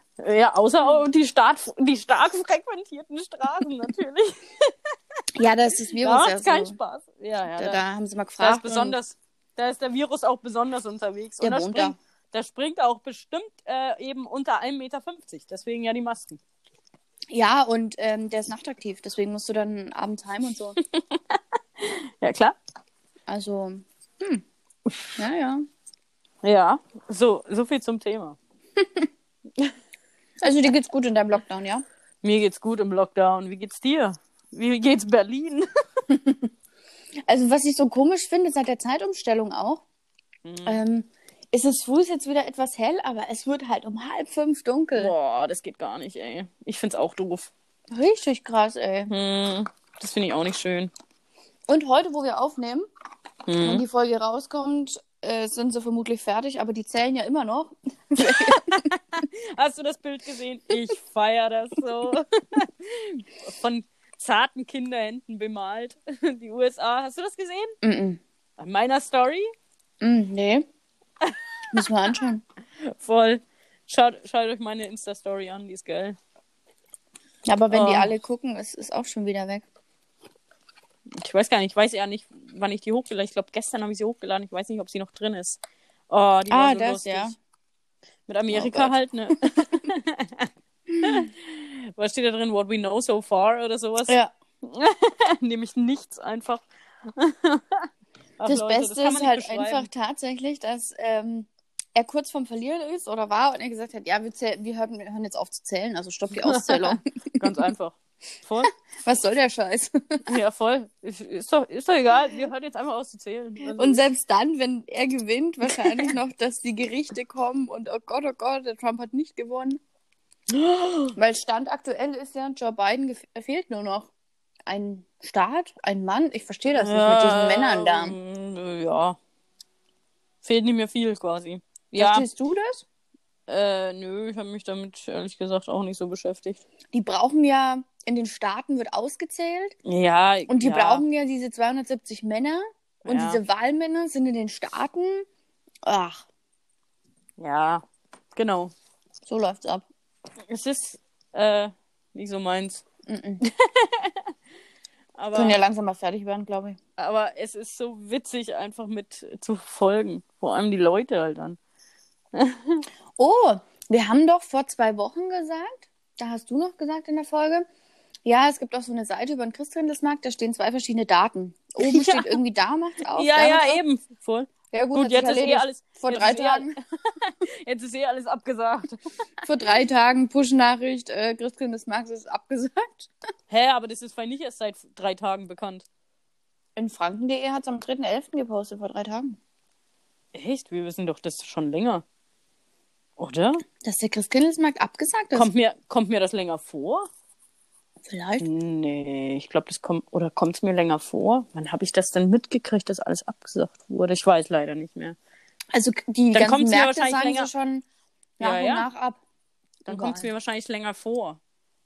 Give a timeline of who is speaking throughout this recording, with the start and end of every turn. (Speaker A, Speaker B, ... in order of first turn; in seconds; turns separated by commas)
Speaker A: 0.2-4.7, Speaker B: 5.4-6.8, Speaker A: 6.0-7.8, Speaker B: 7.5-9.0, Speaker A: 8.4-16.4, Speaker B: 11.4-12.0, Speaker B: 17.3-20.8, Speaker A: 21.1-22.6, Speaker B: 23.3-24.4, Speaker B: 25.2-25.6, Speaker A: 26.4-28.4, Speaker B: 28.8-29.1, Speaker B: 30.4-31.9, Speaker A: 32.2-36.0, Speaker B: 36.1-36.5, Speaker B: 37.3-39.8, Speaker A: 40.5-40.8, Speaker B: 40.7-45.1, Speaker A: 45.0-47.5, Speaker B: 47.9-49.1, Speaker A: 49.1-50.9, Speaker B: 51.7-52.9, Speaker A: 53.5-53.8, Speaker B: 53.6-58.9, Speaker A: 58.2-67.8, Speaker B: 67.8-68.2, Speaker A: 68.6-69.5, Speaker B: 70.0-70.7, Speaker B: 71.7-72.4, Speaker A: 72.8-76.2, Speaker B: 77.5-79.7, Speaker A: 77.7-78.1, Speaker A: 81.2-87.3, Speaker B: 86.5-87.3, Speaker A: 88.3-90.5, Speaker B: 88.5-88.9, Speaker A: 91.0-99.9, Speaker B: 98.5-107.5, Speaker A: 106.4-108.7, Speaker B: 109.0-110.3, Speaker A: 110.3-114.0, Speaker B: 113.8-119.8, Speaker A: 115.7-116.1, Speaker A: 120.5-121.2, Speaker B: 121.2-124.1, Speaker B: 124.7-128.2, Speaker A: 126.8-129.2, Speaker A: 130.4-132.3, Speaker B: 131.9-132.8, Speaker A: 133.5-136.6, Speaker B: 136.9-139.8, Speaker A: 139.8-141.0, Speaker B: 140.5-145.3, Speaker A: 143.1-143.4, Speaker B: 145.9-146.3, Speaker A: 147.4-147.8, Speaker A: 148.3-148.7, Speaker B: 149.3-149.9, Speaker A: 150.5-152.8, Speaker B: 153.1-153.4, Speaker A: 153.4-154.3, Speaker A: 155.2-155.6, Speaker B: 155.3-156.8, Speaker A: 157.0-161.6, Speaker A: 162.3-162.8, Speaker B: 163.2-167.7, Speaker B: 168.2-173.8, Speaker A: 171.8-172.4, Speaker A: 173.1-179.0, Speaker B: 174.7-176.7, Speaker B: 179.4-183.1, Speaker A: 183.5-185.9, Speaker B: 186.8-189.4, Speaker A: 190.3-192.0, Speaker A: 193.2-193.6, Speaker B: 193.8-195.5, Speaker A: 195.3-197.1, Speaker B: 198.1-198.5, Speaker A: 198.4-205.2, Speaker B: 205.7-207.9, Speaker A: 206.3-207.5, Speaker B: 208.4-209.2, Speaker A: 208.4-208.9, Speaker A: 209.9-211.4, Speaker B: 209.9-210.3